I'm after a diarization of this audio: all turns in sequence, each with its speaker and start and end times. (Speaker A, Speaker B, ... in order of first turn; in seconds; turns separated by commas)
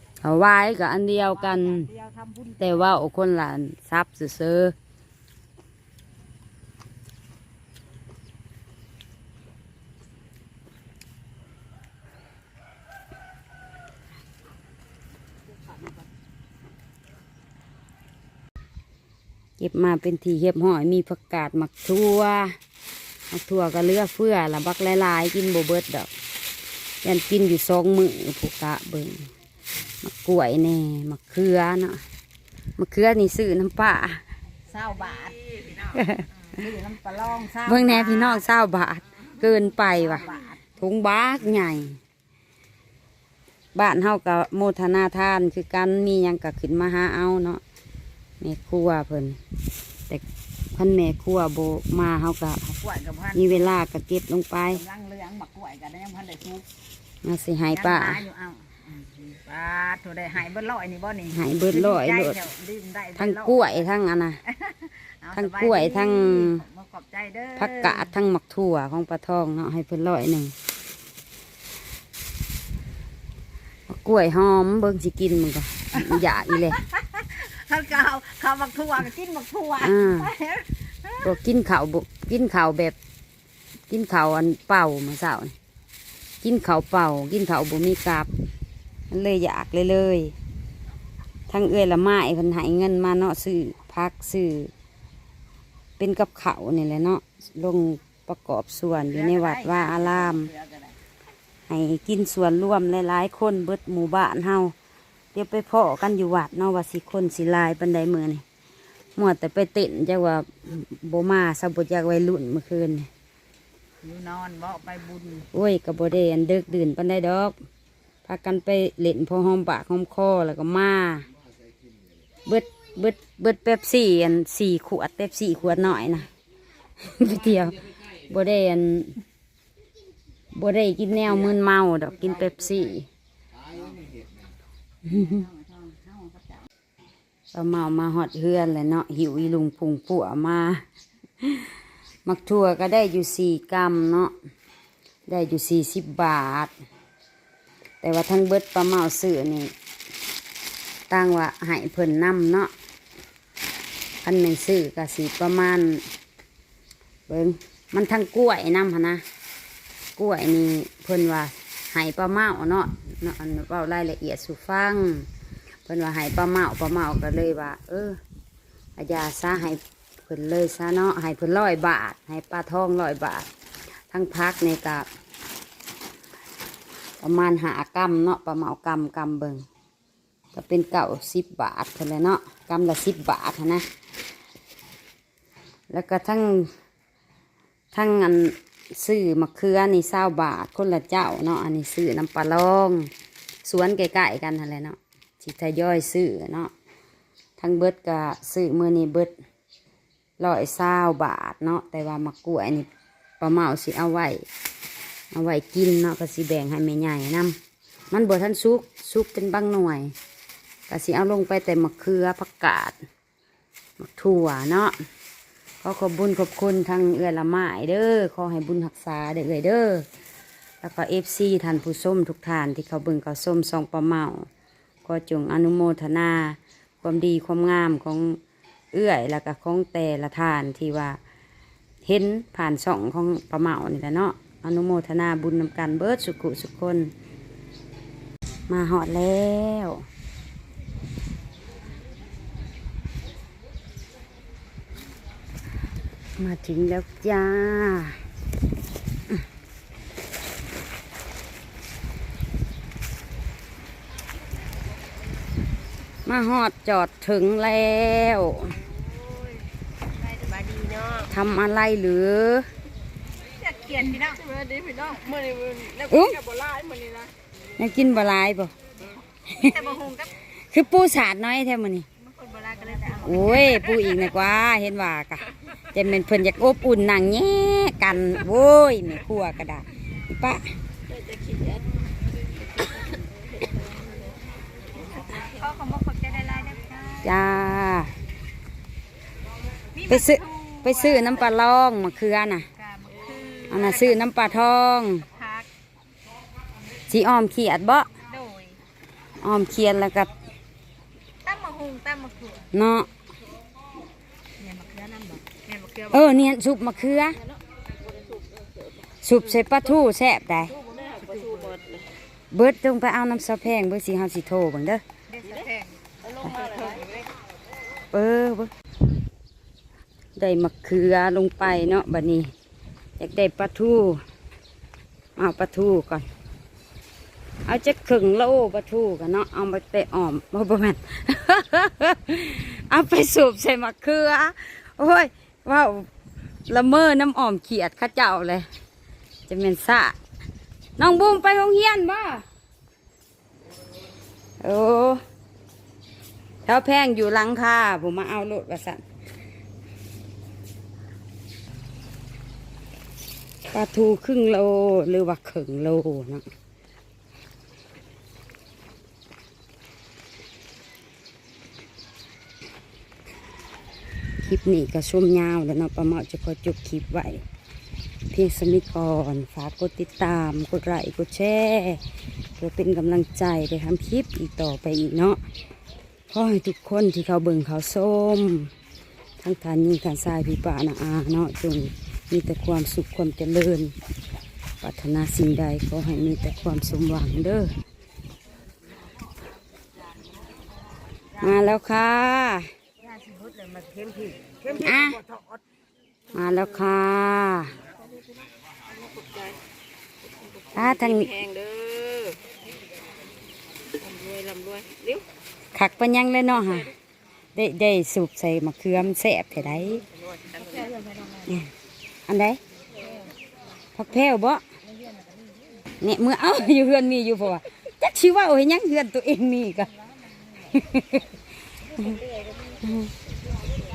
Speaker A: 0.2-1.9, Speaker B: 1.3-2.9, Speaker A: 2.6-4.7, Speaker A: 19.6-22.6, Speaker A: 23.3-26.1, Speaker A: 27.0-29.3, Speaker A: 30.0-32.0, Speaker A: 32.8-34.2, Speaker B: 34.7-35.8, Speaker A: 35.8-36.2, Speaker B: 36.5-38.4, Speaker A: 37.6-42.0, Speaker B: 39.8-40.6, Speaker A: 43.7-47.6, Speaker A: 48.4-49.4, Speaker A: 50.7-52.7, Speaker B: 52.8-53.7, Speaker A: 53.3-54.8, Speaker B: 54.7-56.6, Speaker A: 57.2-58.2, Speaker B: 57.7-63.8, Speaker A: 61.3-62.4, Speaker A: 63.2-64.4, Speaker B: 64.5-68.1, Speaker A: 65.3-66.6, Speaker A: 67.6-70.5, Speaker A: 73.9-76.8, Speaker B: 76.0-81.3, Speaker A: 79.8-80.3, Speaker A: 81.2-83.0, Speaker A: 83.9-85.5, Speaker A: 86.4-88.3, Speaker A: 89.1-90.3, Speaker A: 91.5-94.7, Speaker A: 96.0-100.5, Speaker B: 98.9-101.0, Speaker A: 101.7-104.7, Speaker A: 105.3-108.4, Speaker A: 109.2-113.1, Speaker B: 114.0-115.5, Speaker A: 115.5-117.5, Speaker A: 118.2-121.2, Speaker A: 122.5-126.3, Speaker A: 127.0-129.2, Speaker A: 130.5-133.1, Speaker B: 133.7-134.0, Speaker B: 135.1-136.7, Speaker A: 135.1-135.4, Speaker A: 137.5-140.8, Speaker A: 141.4-141.7, Speaker A: 142.2-144.3, Speaker A: 145.3-146.7, Speaker A: 148.0-149.7, Speaker A: 151.1-152.7, Speaker A: 154.2-156.0, Speaker A: 157.3-159.2, Speaker A: 160.2-165.3, Speaker A: 165.8-168.2, Speaker A: 169.0-173.5, Speaker A: 174.1-175.1, Speaker A: 177.2-179.6, Speaker A: 180.5-183.8, Speaker A: 185.9-186.7, Speaker A: 187.9-193.1, Speaker A: 193.6-196.7, Speaker A: 197.6-199.3, Speaker A: 200.4-202.9, Speaker A: 203.4-204.4, Speaker A: 205.3-207.6, Speaker A: 208.1-210.1, Speaker A: 210.9-212.9, Speaker A: 214.0-214.9, Speaker A: 215.8-220.1, Speaker A: 220.8-224.4, Speaker A: 225.0-228.4, Speaker A: 228.9-231.2, Speaker A: 232.0-237.1, Speaker A: 238.7-240.0, Speaker A: 246.4-248.2, Speaker A: 256.2-258.8, Speaker B: 260.2-261.3, Speaker A: 261.3-262.7, Speaker B: 263.4-264.6, Speaker C: 264.5-267.3, Speaker A: 266.0-266.4, Speaker A: 267.8-268.7, Speaker A: 269.5-269.8, Speaker B: 269.5-270.4, Speaker A: 270.5-272.1, Speaker B: 272.2-274.2, Speaker A: 273.2-280.7, Speaker C: 281.1-281.9, Speaker C: 283.1-284.3, Speaker B: 285.1-287.4, Speaker A: 287.2-288.1, Speaker B: 289.9-291.4, Speaker A: 290.1-292.7, Speaker B: 292.8-294.3, Speaker A: 293.7-295.3, Speaker B: 295.3-295.7, Speaker A: 297.1-298.1, Speaker B: 298.2-298.8, Speaker A: 299.4-300.3, Speaker B: 301.4-302.7, Speaker A: 302.7-303.1, Speaker B: 304.6-306.4, Speaker A: 306.1-307.4, Speaker C: 308.2-308.7, Speaker A: 309.2-310.8, Speaker C: 310.8-311.8, Speaker B: 310.9-311.8, Speaker A: 312.5-315.0, Speaker B: 315.3-317.2, Speaker C: 316.3-317.1, Speaker A: 318.1-318.7, Speaker A: 320.4-322.5, Speaker A: 323.2-324.2, Speaker A: 325.4-326.3, Speaker A: 327.6-336.1, Speaker A: 336.7-338.6, Speaker A: 339.5-340.2, Speaker A: 341.0-342.4, Speaker A: 344.6-345.2, Speaker A: 346.6-349.0, Speaker A: 353.6-356.5, Speaker A: 364.4-367.4, Speaker A: 368.3-372.0, Speaker A: 372.6-375.4, Speaker A: 376.3-378.7, Speaker A: 379.4-383.9, Speaker A: 384.8-387.7, Speaker A: 391.4-392.7, Speaker B: 393.0-395.6, Speaker A: 394.7-395.2, Speaker A: 396.3-397.7, Speaker C: 398.9-399.6, Speaker C: 400.4-402.4, Speaker A: 400.7-401.4, Speaker C: 404.0-405.2, Speaker A: 405.7-406.9, Speaker A: 407.5-410.1, Speaker C: 410.4-410.9, Speaker B: 410.6-411.4, Speaker A: 412.3-412.6, Speaker A: 413.9-414.6, Speaker B: 415.0-415.6, Speaker A: 416.0-419.9, Speaker A: 420.6-421.4, Speaker B: 422.0-422.3, Speaker A: 422.8-423.1